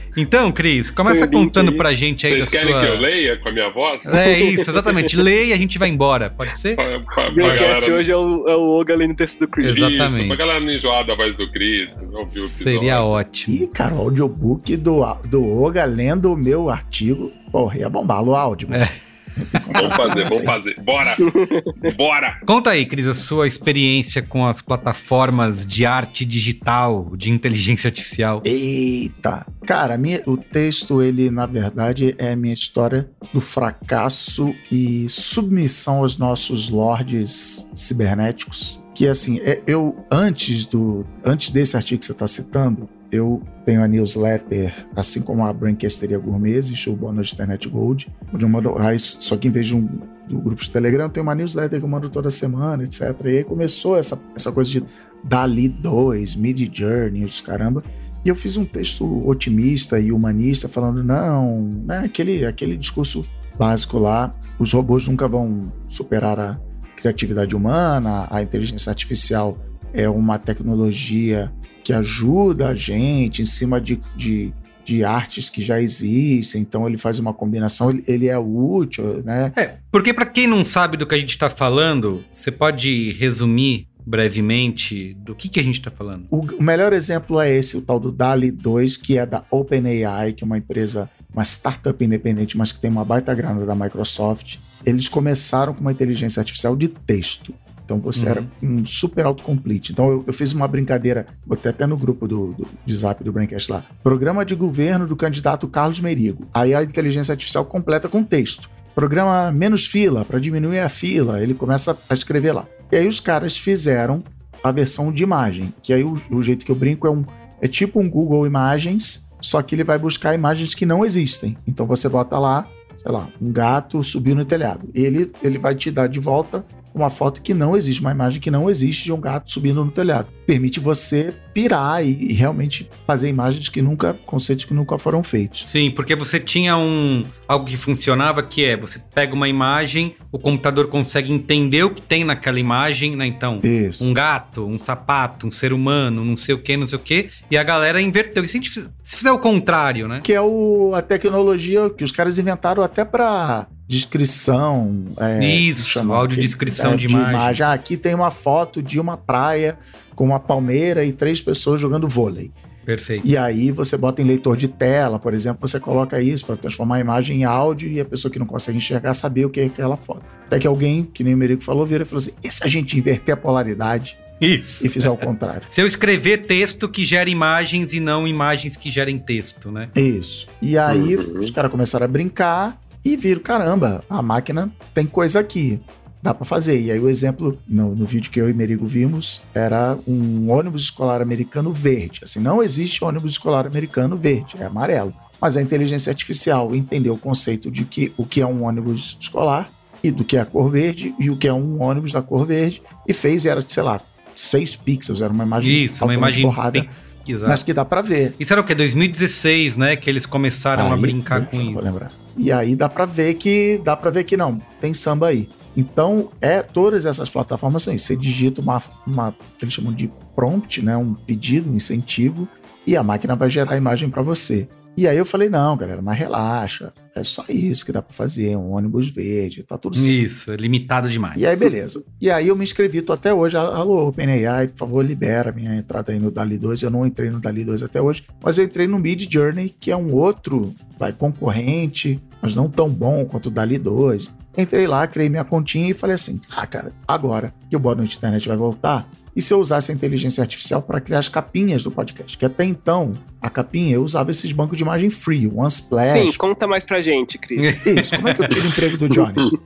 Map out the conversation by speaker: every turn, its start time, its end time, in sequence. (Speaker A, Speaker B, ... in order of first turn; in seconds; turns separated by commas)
Speaker A: 0.1-3.1, Speaker B: 2.3-4.2, Speaker A: 4.0-6.8, Speaker C: 4.2-4.6, Speaker B: 6.8-8.0, Speaker C: 7.3-9.8, Speaker A: 7.4-8.0, Speaker A: 9.6-10.4, Speaker B: 9.6-13.2, Speaker A: 12.3-13.7, Speaker D: 13.5-20.5, Speaker A: 18.7-20.1, Speaker B: 19.7-21.3, Speaker C: 21.2-21.7, Speaker B: 21.8-22.4, Speaker A: 22.4-28.4, Speaker D: 28.4-79.5, Speaker A: 79.5-86.3, Speaker D: 86.3-135.7, Speaker A: 98.1-98.5, Speaker A: 135.6-150.2, Speaker D: 143.6-144.1, Speaker D: 150.2-162.5, Speaker A: 155.4-157.6, Speaker A: 162.8-163.3, Speaker D: 163.2-174.2, Speaker A: 174.4-179.9, Speaker D: 174.8-175.7, Speaker D: 179.9-206.9, Speaker B: 180.9-181.5, Speaker A: 205.6-207.7, Speaker D: 207.4-208.4, Speaker A: 208.4-211.9, Speaker D: 210.8-230.2, Speaker A: 229.9-231.6, Speaker D: 231.3-256.4, Speaker C: 256.1-257.8, Speaker A: 257.6-258.6, Speaker D: 257.8-259.5